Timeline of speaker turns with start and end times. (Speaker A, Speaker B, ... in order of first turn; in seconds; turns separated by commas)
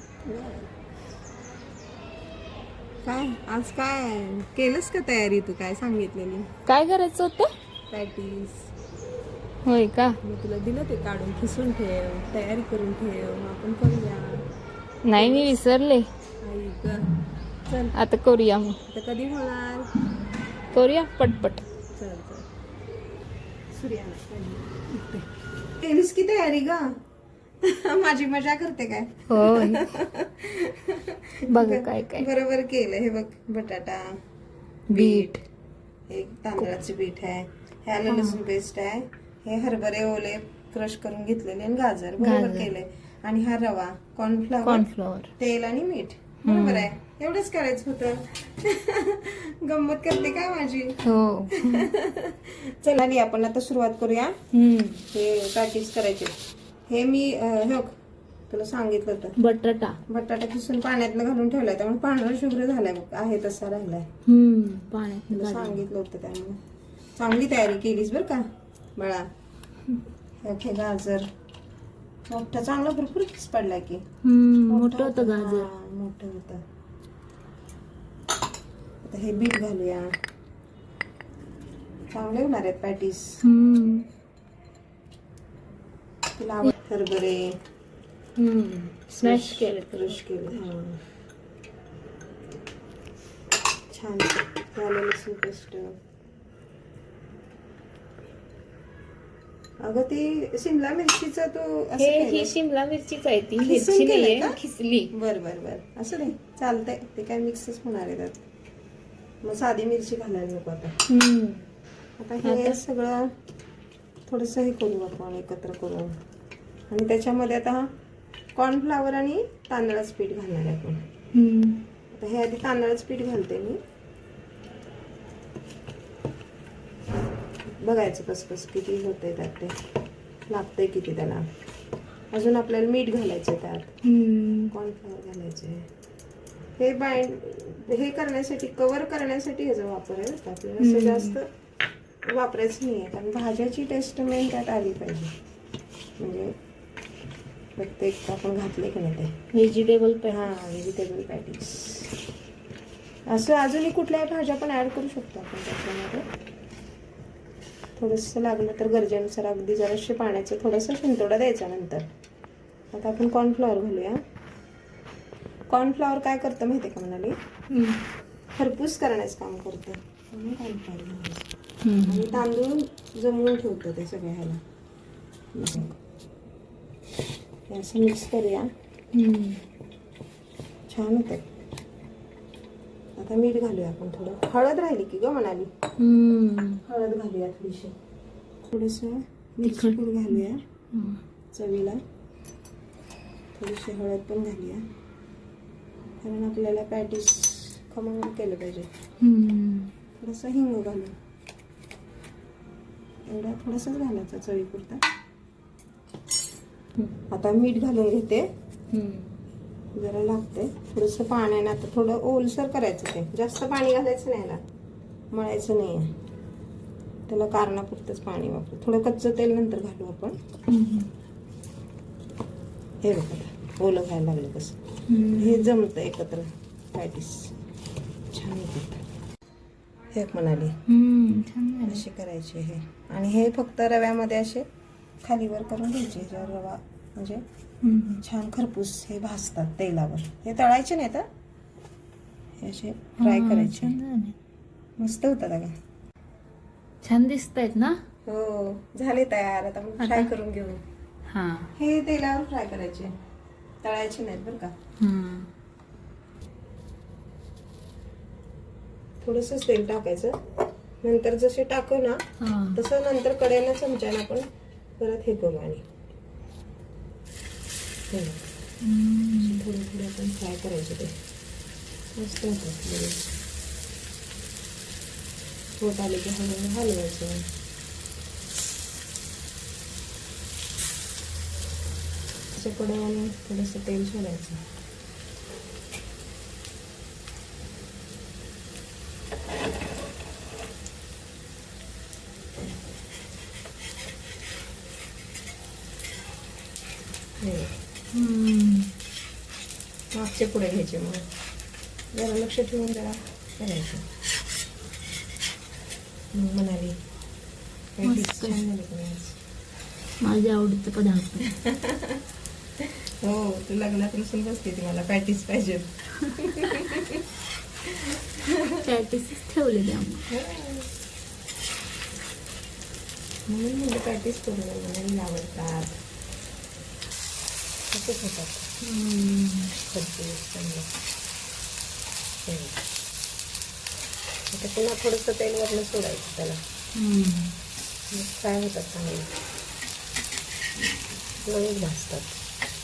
Speaker A: 0.3-0.7, Speaker A: 3.0-6.5, Speaker B: 6.7-7.5, Speaker A: 7.9-8.7, Speaker B: 9.7-10.2, Speaker A: 10.2-14.4, Speaker B: 15.1-16.1, Speaker A: 15.2-15.6, Speaker A: 16.4-17.1, Speaker A: 17.7-17.9, Speaker B: 17.9-18.8, Speaker A: 18.9-19.9, Speaker B: 20.7-21.6, Speaker A: 21.9-22.5, Speaker A: 23.7-25.3, Speaker A: 25.8-26.9, Speaker A: 27.6-34.2, Speaker B: 29.3-29.8, Speaker B: 31.5-32.3, Speaker B: 34.9-35.4, Speaker A: 34.9-35.4, Speaker A: 36.1-44.9, Speaker B: 38.1-38.4, Speaker B: 42.2-42.7, Speaker B: 44.6-45.3, Speaker A: 45.4-51.0, Speaker B: 46.5-46.9, Speaker B: 51.0-51.9, Speaker A: 51.5-54.4, Speaker B: 54.5-55.0, Speaker A: 55.1-56.4, Speaker A: 56.9-57.9, Speaker A: 58.5-59.4, Speaker B: 59.4-60.0, Speaker A: 60.1-64.1, Speaker B: 64.3-65.8, Speaker A: 65.3-66.6, Speaker A: 67.2-68.5, Speaker A: 69.0-69.3, Speaker A: 70.4-71.3, Speaker A: 72.3-74.0, Speaker B: 74.2-75.7, Speaker A: 74.7-76.6, Speaker A: 79.0-80.1, Speaker A: 82.1-83.4, Speaker B: 83.4-84.1, Speaker A: 86.4-87.5, Speaker B: 88.4-90.2, Speaker A: 89.2-91.0, Speaker A: 93.9-96.0, Speaker A: 99.8-102.5, Speaker B: 102.0-105.1, Speaker A: 103.6-104.6, Speaker A: 105.1-108.4, Speaker A: 109.4-111.0, Speaker B: 111.1-111.7, Speaker A: 112.2-113.3, Speaker B: 112.4-112.8, Speaker A: 114.3-116.2, Speaker A: 116.9-117.9, Speaker A: 118.6-121.0, Speaker B: 121.3-121.8, Speaker A: 122.1-123.8, Speaker A: 127.8-129.8, Speaker A: 130.5-131.5, Speaker A: 132.3-133.9, Speaker B: 134.0-134.7, Speaker A: 134.7-135.9, Speaker A: 136.8-141.5, Speaker B: 140.8-141.4, Speaker A: 142.3-145.3, Speaker A: 146.2-146.5, Speaker A: 147.8-149.3, Speaker B: 149.5-150.5, Speaker A: 150.3-152.1, Speaker A: 153.3-156.3, Speaker A: 158.0-162.1, Speaker A: 162.9-164.2, Speaker A: 165.7-167.4, Speaker B: 167.7-168.0, Speaker A: 168.6-171.5, Speaker B: 171.8-172.4, Speaker A: 172.0-174.6, Speaker A: 175.5-176.0, Speaker A: 177.7-178.7, Speaker B: 179.1-179.6, Speaker A: 180.9-181.5, Speaker A: 183.2-185.7, Speaker B: 186.0-186.8, Speaker A: 186.8-187.9, Speaker A: 188.7-190.6, Speaker B: 189.6-190.4, Speaker B: 190.9-191.2, Speaker A: 191.5-192.0, Speaker A: 193.6-194.8, Speaker A: 196.2-198.9, Speaker B: 199.2-199.9, Speaker A: 200.2-201.2, Speaker A: 203.3-205.0, Speaker A: 207.3-208.5, Speaker B: 208.9-209.3, Speaker A: 209.9-214.6, Speaker A: 215.3-216.1, Speaker A: 217.3-220.4, Speaker B: 220.7-221.1, Speaker A: 223.0-224.8, Speaker B: 225.1-225.7, Speaker A: 225.3-227.5, Speaker A: 228.3-229.0, Speaker A: 230.1-230.8, Speaker B: 230.9-232.0, Speaker A: 231.8-234.7, Speaker A: 235.2-237.4, Speaker B: 237.8-238.2, Speaker A: 238.2-241.3, Speaker A: 242.6-244.0, Speaker B: 243.2-244.4, Speaker A: 245.0-245.7, Speaker B: 247.0-248.0, Speaker A: 248.3-250.8, Speaker B: 250.0-250.3, Speaker B: 251.3-251.7, Speaker A: 251.8-253.2, Speaker A: 253.8-254.7, Speaker B: 255.0-255.5, Speaker A: 259.2-260.4, Speaker A: 261.0-262.2, Speaker B: 262.4-262.8, Speaker A: 262.7-264.5, Speaker A: 265.0-265.8, Speaker A: 268.1-268.5, Speaker B: 268.8-269.6, Speaker A: 269.3-271.1, Speaker A: 272.2-273.3, Speaker A: 275.8-277.5, Speaker A: 282.5-284.6, Speaker A: 297.4-297.8, Speaker B: 298.1-298.9, Speaker A: 300.2-301.2, Speaker A: 302.1-304.0, Speaker A: 306.3-306.9, Speaker A: 308.0-309.4, Speaker B: 308.0-308.6, Speaker B: 310.2-311.5, Speaker A: 311.5-312.1, Speaker A: 313.2-317.2, Speaker A: 318.0-318.7, Speaker B: 318.8-320.2, Speaker A: 320.3-320.9, Speaker A: 323.5-325.9, Speaker A: 327.9-328.7, Speaker B: 328.8-329.7, Speaker A: 329.9-330.9, Speaker A: 332.5-332.8, Speaker A: 334.5-336.6, Speaker B: 336.9-337.5, Speaker A: 338.1-339.3, Speaker A: 341.4-342.4